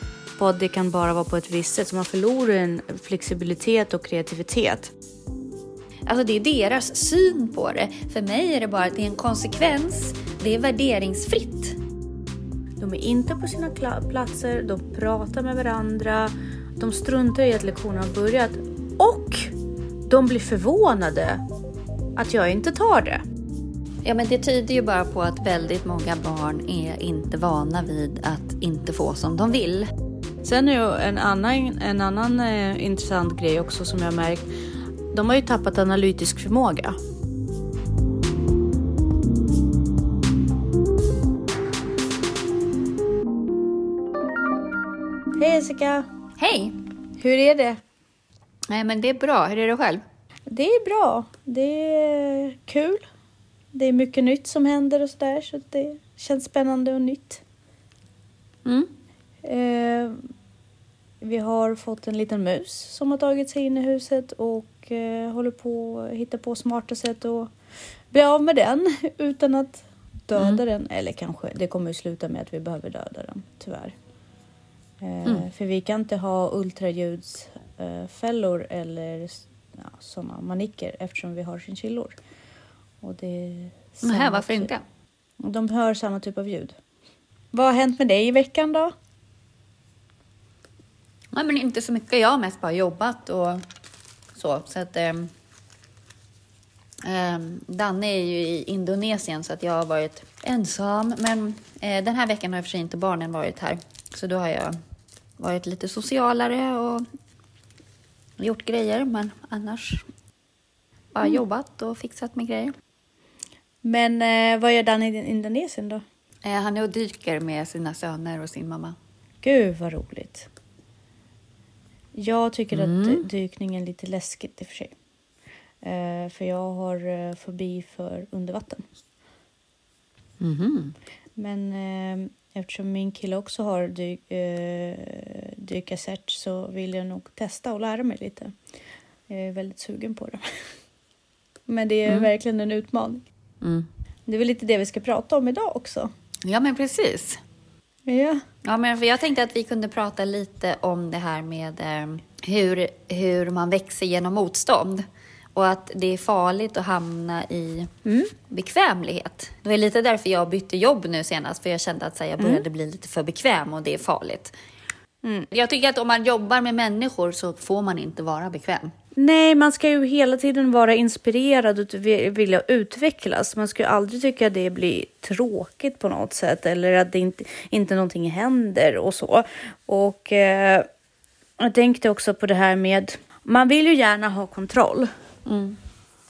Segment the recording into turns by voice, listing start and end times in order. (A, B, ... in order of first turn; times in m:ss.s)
0:00.4-0:04.9 A
0:06.1-0:11.8 B
0:12.8-0:19.5 A
0:20.1-0:21.4 A
0:22.2-0:23.2 A
0:24.0-0:29.9 B
0:30.4-0:34.5 A
0:35.1-0:37.0 A
0:45.4-0:46.1 A
0:46.4-0:46.8 B
0:47.2-0:47.8 A
0:48.7-0:50.0 B
0:50.5-0:53.0 A
0:53.7-0:57.4 A
0:59.4-1:00.2 A
1:01.2-1:07.5 A
1:08.1-1:13.9 A
1:15.0-1:22.2 A
1:23.0-1:24.7 A
1:24.0-1:24.8 B
1:25.4-1:26.8 A
1:27.5-1:28.9 A
1:31.3-1:33.6 B
1:34.4-1:35.3 B
1:37.0-1:44.8 B
1:45.4-1:47.0 B
1:48.4-1:50.0 B
1:51.1-1:52.7 B
1:53.8-1:56.0 A
1:56.4-1:59.0 B
1:59.4-2:00.5 A
2:02.1-2:04.9 A
2:02.7-2:03.2 B
2:05.8-2:08.8 A
2:10.4-2:10.9 B
2:11.4-2:18.5 A
2:19.3-2:20.5 A
2:21.7-2:23.2 A
2:23.6-2:23.9 B
2:24.3-2:26.1 A
2:26.4-2:27.4 B
2:28.1-2:28.4 A
2:28.6-2:37.9 B
2:38.0-2:38.3 A
2:38.5-2:44.5 B
2:42.4-2:42.6 A
2:45.2-2:45.5 A
2:45.5-2:48.9 B
2:49.2-3:00.9 A
3:01.6-3:05.1 A
3:05.4-3:05.8 B